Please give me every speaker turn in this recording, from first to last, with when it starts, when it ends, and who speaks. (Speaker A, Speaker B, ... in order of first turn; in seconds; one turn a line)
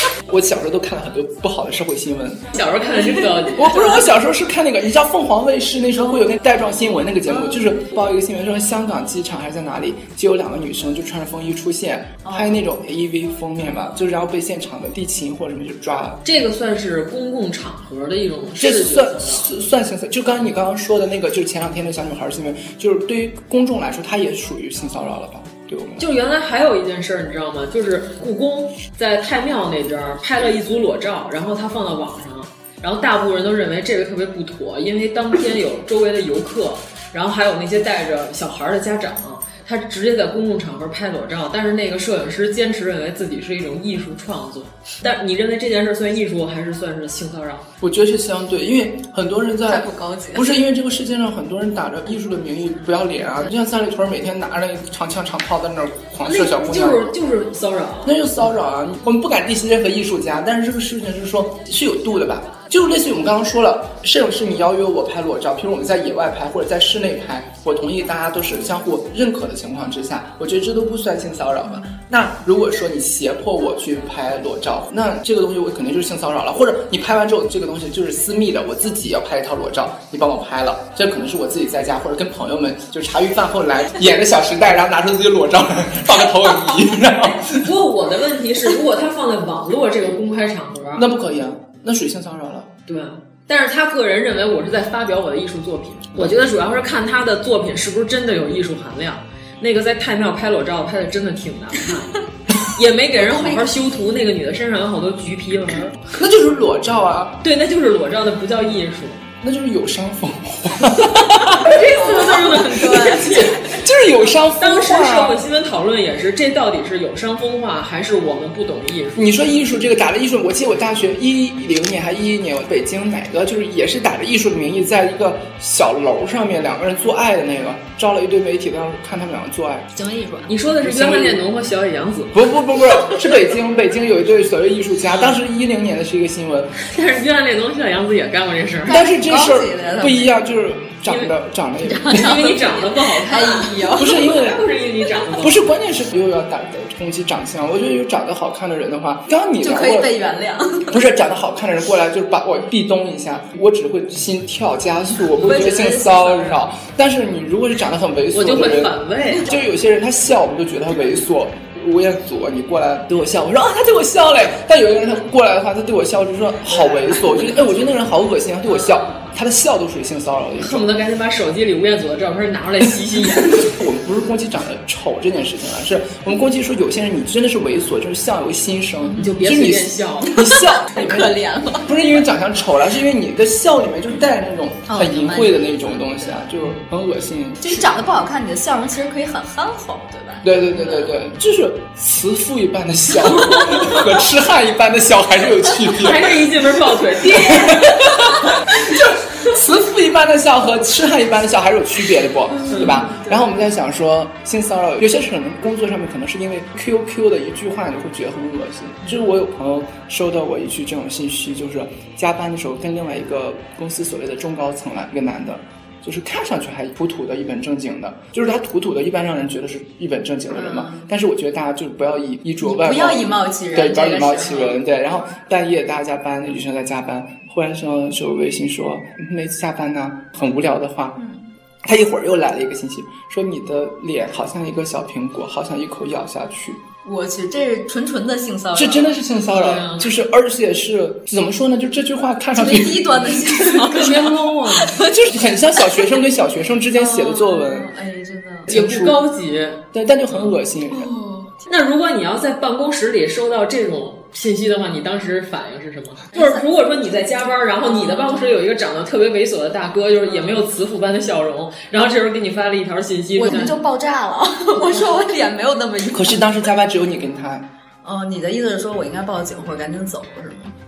Speaker A: 0.3-2.6
Speaker B: 2.5-4.0
Speaker A: 3.5-16.2
Speaker C: 7.3-7.6
Speaker C: 12.2-12.6
Speaker B: 16.2-19.5
Speaker A: 18.6-26.1
Speaker B: 26.0-47.7
Speaker A: 47.8-57.1
Speaker C: 49.7-50.5
Speaker B: 56.2-58.2
Speaker A: 58.0-87.6
Speaker B: 87.4-91.0
Speaker A: 90.9-92.7
Speaker B: 92.9-106.0
Speaker C: 103.2-103.6
Speaker A: 106.1-107.4
Speaker B: 107.4-109.2
Speaker A: 109.4-111.7
Speaker B: 111.3-113.7
Speaker C: 111.7-113.6
Speaker A: 113.6-115.4
Speaker B: 114.5-119.5
Speaker A: 119.1-129.9
Speaker C: 129.9-130.6
Speaker B: 130.5-132.3
Speaker A: 130.8-131.4
Speaker A: 132.3-136.7
Speaker B: 136.8-139.0
Speaker C: 138.9-140.3
Speaker A: 138.9-142.4
Speaker C: 141.8-144.3
Speaker B: 142.1-145.6
Speaker A: 143.9-144.6
Speaker A: 145.4-150.1
Speaker C: 149.6-151.0
Speaker A: 150.9-170.9
Speaker B: 155.4-155.9
Speaker C: 155.4-156.5
Speaker B: 158.3-159.4
Speaker B: 170.6-173.7
Speaker A: 173.5-188.0
Speaker B: 179.2-180.3
Speaker C: 180.3-181.9
Speaker C: 184.9-186.4
Speaker C: 187.6-191.2
Speaker A: 190.4-196.5
Speaker B: 195.9-198.2
Speaker A: 197.3-231.2
Speaker C: 202.6-203.3
Speaker B: 202.7-203.0
Speaker C: 220.5-221.1
Speaker C: 222.6-224.8
Speaker A: 231.8-236.8
Speaker C: 237.0-239.1
Speaker A: 238.7-243.8
Speaker B: 239.5-240.1
Speaker C: 242.5-246.0
Speaker B: 243.7-245.0
Speaker A: 245.0-247.9
Speaker C: 246.9-248.7
Speaker A: 248.7-249.2
Speaker B: 248.7-249.8
Speaker A: 249.9-251.1
Speaker C: 250.9-251.6
Speaker B: 251.7-263.8
Speaker C: 256.3-256.6
Speaker C: 257.8-258.6
Speaker C: 260.3-260.6
Speaker C: 263.3-266.5
Speaker A: 266.1-267.7
Speaker C: 268.0-270.7